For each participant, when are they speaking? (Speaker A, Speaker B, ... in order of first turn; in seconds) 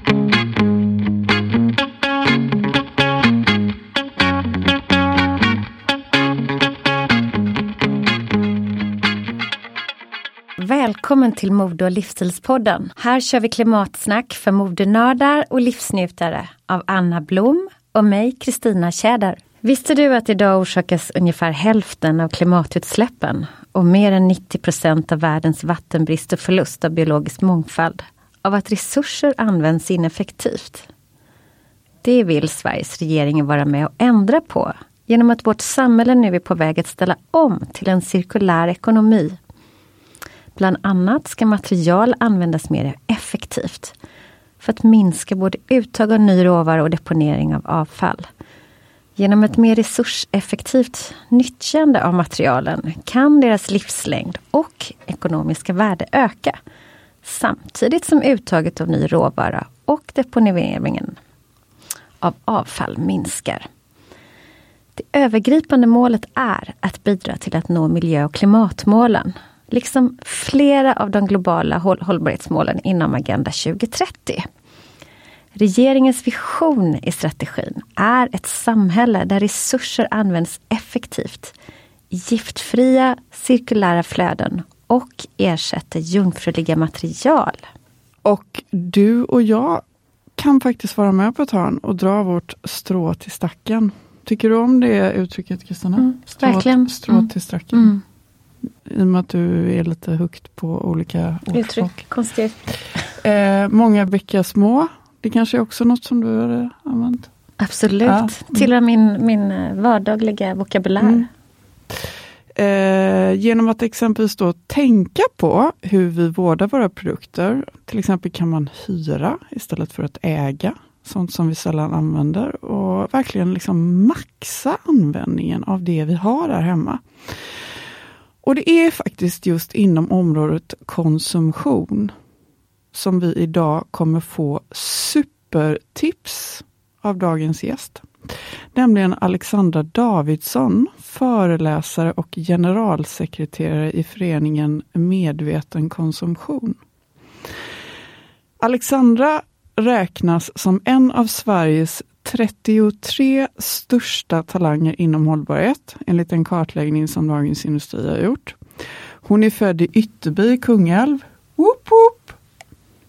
Speaker A: 10.6-30.9, 32.0-39.4, 40.5-43.9, 44.6-48.3, 49.2-56.6, 57.2-61.1, 62.2-63.7, 65.0-74.4, 75.5-81.5, 82.1-87.6, 96.0-98.0, 101.5-102.6, 107.6-111.3
Speaker B: 88.2-89.8, 90.4-97.9, 98.8-102.0, 103.2-107.3, 108.0-108.7, 111.0-111.3, 112.0-127.6, 128.4-132.1, 132.9-138.1, 138.7-146.8, 148.6-158.6, 159.2-162.3